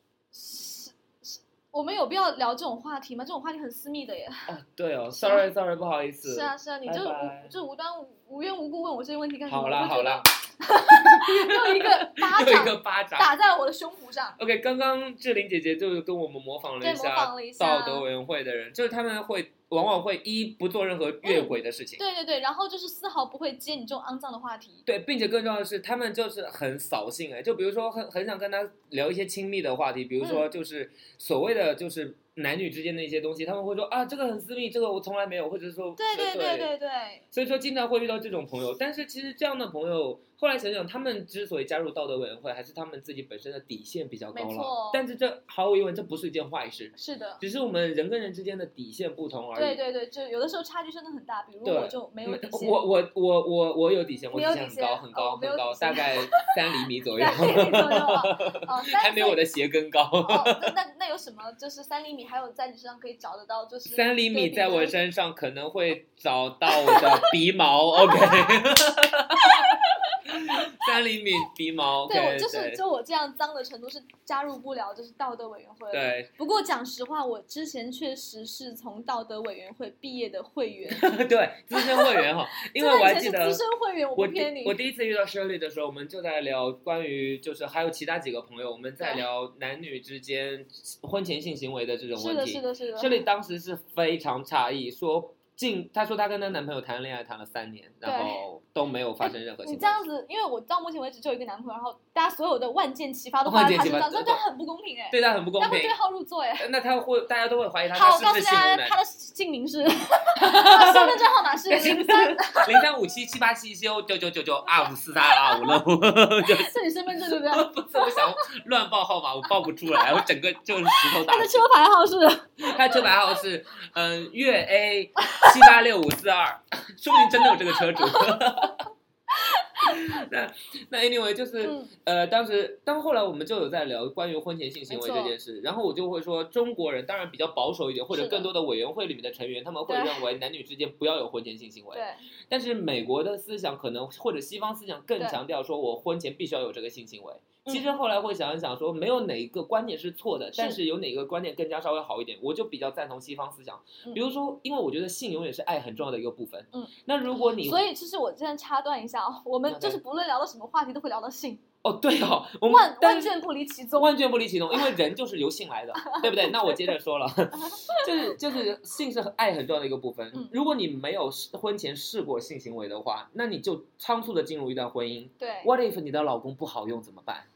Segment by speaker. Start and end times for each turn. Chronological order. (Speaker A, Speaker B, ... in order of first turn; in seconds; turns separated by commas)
Speaker A: 0.3-4.5, Speaker B: 4.5-7.5, Speaker A: 5.1-5.5, Speaker A: 6.2-14.4, Speaker B: 9.5-10.3, Speaker B: 10.9-13.3, Speaker B: 14.4-22.0, Speaker A: 16.8-18.0, Speaker A: 21.2-24.8, Speaker B: 24.9-36.7, Speaker A: 36.0-37.2, Speaker B: 37.3-49.8, Speaker A: 44.3-45.0, Speaker A: 47.0-47.4, Speaker A: 49.5-52.8, Speaker B: 51.6-60.7, Speaker A: 54.3-56.5, Speaker A: 57.1-59.4, Speaker A: 60.2-65.0, Speaker B: 63.9-72.8, Speaker A: 66.7-67.3, Speaker A: 68.0-68.6, Speaker A: 69.4-70.2, Speaker A: 72.1-81.1, Speaker B: 75.9-76.3, Speaker B: 80.9-83.6, Speaker A: 81.7-84.8, Speaker B: 84.2-100.0, Speaker A: 92.2-93.2, Speaker A: 98.0-98.4, Speaker A: 99.2-106.7, Speaker B: 103.4-104.4, Speaker B: 105.1-106.0, Speaker B: 106.6-109.0, Speaker A: 107.9-112.8, Speaker B: 110.4-121.6, Speaker A: 115.3-115.8, Speaker A: 116.4-118.3, Speaker A: 120.9-123.0, Speaker B: 122.6-128.9, Speaker A: 127.2-128.4, Speaker A: 129.3-130.0, Speaker B: 129.8-157.8, Speaker A: 131.6-131.9, Speaker A: 134.9-135.3, Speaker A: 138.1-138.5, Speaker A: 139.9-140.2, Speaker A: 141.9-142.2, Speaker A: 157.6-161.6, Speaker B: 159.7-160.0, Speaker B: 161.8-163.4, Speaker A: 162.7-164.2, Speaker B: 163.9-177.5, Speaker A: 166.0-166.8, Speaker A: 167.6-168.1, Speaker A: 175.4-175.7